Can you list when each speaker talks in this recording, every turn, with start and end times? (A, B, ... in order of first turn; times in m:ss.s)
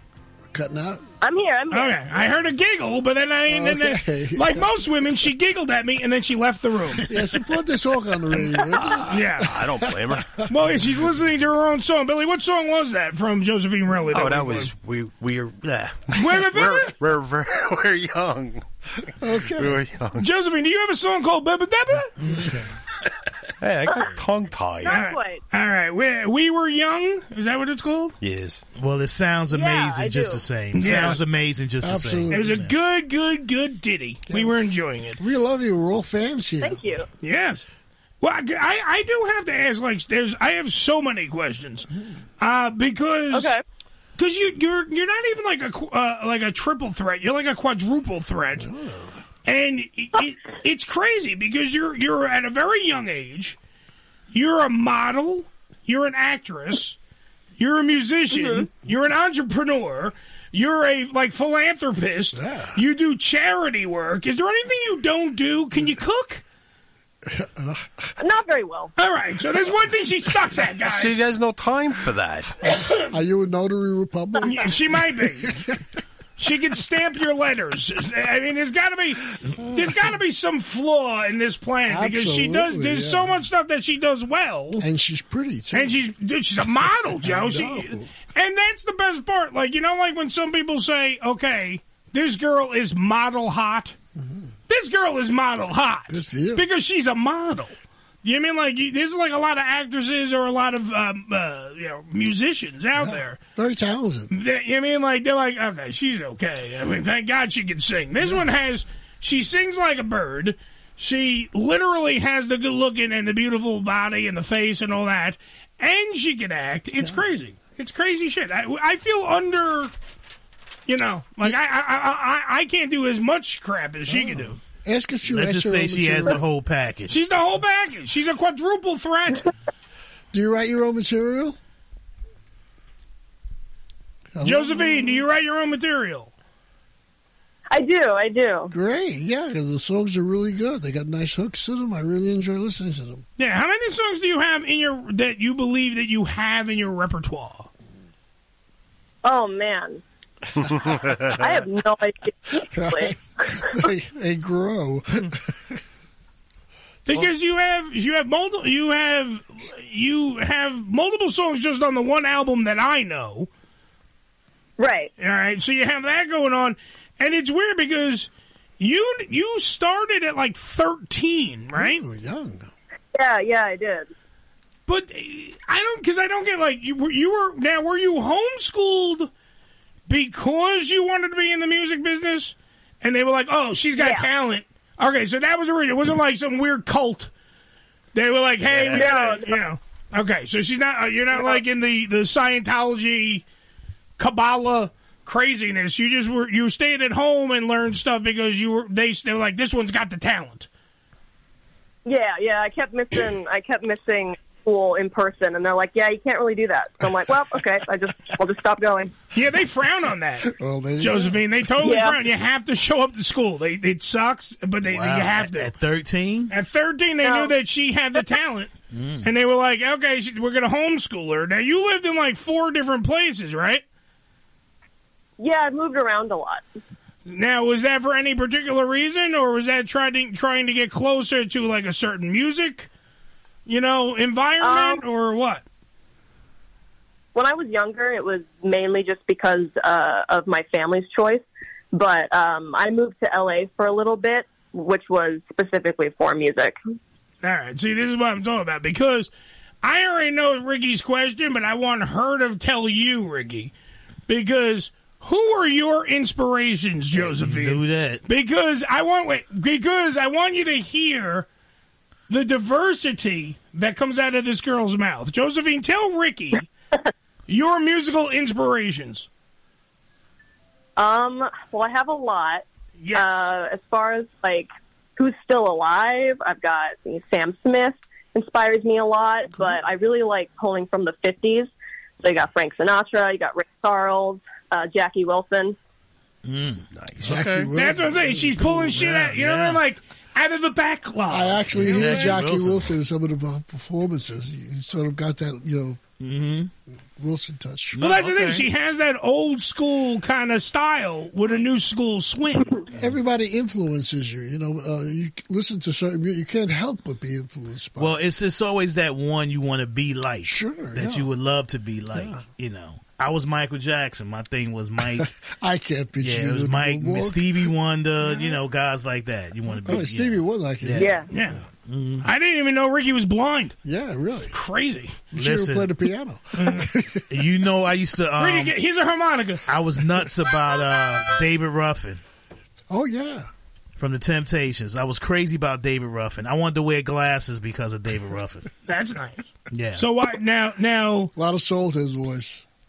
0:00.5-0:01.0 A
0:01.2-0:02.0 B
0:01.7-0:07.1 C
0:03.5-0:04.6 A
0:07.1-0:09.1 A
0:08.8-0:10.5 D
0:09.0-0:09.5 C
0:09.6-0:10.4 A
0:10.5-0:14.7 C
0:14.1-0:20.3 D
0:16.1-0:16.9 C
0:19.2-0:19.8 A
0:20.2-0:22.1 C
0:22.3-0:22.7 A
0:23.6-0:25.0 D
0:24.8-0:25.4 B
0:24.8-0:28.1 C
0:28.2-0:28.6 D
0:28.8-0:32.7 E
0:29.5-0:30.9 B
0:30.7-0:31.2 C
0:31.8-0:32.6 A
0:32.3-0:35.2 C
0:34.3-0:34.5 A
0:35.2-0:36.8 A
0:36.6-0:37.1 B
0:37.2-0:37.6 C
0:38.2-0:41.9 C
0:42.4-0:43.5 C
0:43.3-0:43.6 B
0:44.2-0:48.7 C
0:48.6-0:49.2 A
0:49.4-0:53.6 C
0:54.3-0:57.0 C
0:57.6-1:06.4 C
0:58.3-0:58.7 B
1:02.3-1:02.8 A
1:07.2-1:08.1 A
1:08.2-1:08.9 B
1:09.0-1:11.2 C
1:10.8-1:12.6 D
1:12.6-1:15.8 A
1:12.7-1:13.1 C
1:14.4-1:15.7 C
1:16.4-1:24.8 C
1:19.5-1:20.0 A
1:21.9-1:23.4 A
1:24.8-1:26.0 A
1:25.7-1:33.9 C
1:27.2-1:28.1 A
1:34.2-1:34.4 A
1:34.7-1:43.4 C
1:36.1-1:36.6 A
1:43.0-1:44.3 A
1:44.3-1:59.9 C
2:00.9-2:04.6 C
2:04.1-2:06.4 A
2:05.3-2:07.2 E
2:07.1-2:09.5 C
2:10.3-2:11.6 A
2:14.3-2:15.2 A
2:14.4-2:16.3 C
2:17.7-2:18.7 B
2:18.7-2:23.2 A
2:23.4-2:27.7 C
2:29.2-2:30.0 B
2:30.6-2:31.4 D
2:31.3-2:33.9 B
2:32.6-2:35.8 A
2:37.0-2:43.5 C
2:44.8-2:45.1 B
2:45.2-2:52.0 C
2:51.7-2:52.7 A
2:53.1-2:54.1 B
2:54.9-2:59.3 C
3:00.1-3:07.3 C
3:04.0-3:04.3 B
3:08.1-3:13.4 C
3:08.6-3:09.1 E
3:08.9-3:09.6 B
3:14.2-3:20.7 C
3:22.0-3:29.2 B
3:29.3-3:35.7 C
3:30.4-3:31.4 A
3:31.8-3:32.2 B
3:34.8-3:36.5 E
3:36.5-3:38.7 C
3:37.2-3:37.5 B
3:38.9-3:39.3 E
3:39.2-3:43.8 C
3:45.4-3:46.6 B
3:47.2-3:52.9 C
3:53.6-3:55.6 C
3:54.6-3:55.0 B
3:57.3-4:06.8 B
4:07.4-4:09.3 C
4:09.8-4:13.7 C
4:14.3-4:21.5 C
4:17.2-4:18.2 E
4:22.3-4:26.7 C
4:27.5-4:29.3 C
4:31.0-4:45.8 B
4:33.0-4:33.5 C
4:46.4-4:47.7 E
4:46.9-4:47.4 D
4:47.2-4:49.1 A
4:47.7-4:52.4 C
4:48.9-4:49.8 E
4:51.3-4:56.0 A
4:51.7-4:52.9 E
4:56.2-4:56.7 E
4:57.2-4:58.0 A
4:58.0-4:58.6 E
4:58.0-5:02.8 C
5:02.9-5:08.2 A
5:08.0-5:15.3 E
5:10.4-5:11.3 A
5:12.1-5:12.4 A
5:15.1-5:17.7 A
5:16.2-5:21.2 E
5:18.2-5:18.6 A
5:19.8-5:21.3 A
5:21.0-5:21.3 B
5:21.3-5:21.6 C
5:21.8-5:22.3 E
5:22.2-5:23.7 C
5:23.8-5:24.5 A
5:24.5-5:25.2 C
5:25.3-5:27.3 A
5:25.3-5:25.9 E
5:26.6-5:26.9 C
5:27.3-5:28.7 E
5:28.4-5:29.6 C
5:29.7-5:32.2 E
5:32.9-5:33.5 A
5:34.0-5:38.7 E
5:38.9-5:41.3 C
5:39.7-5:40.0 E
5:41.4-5:42.7 A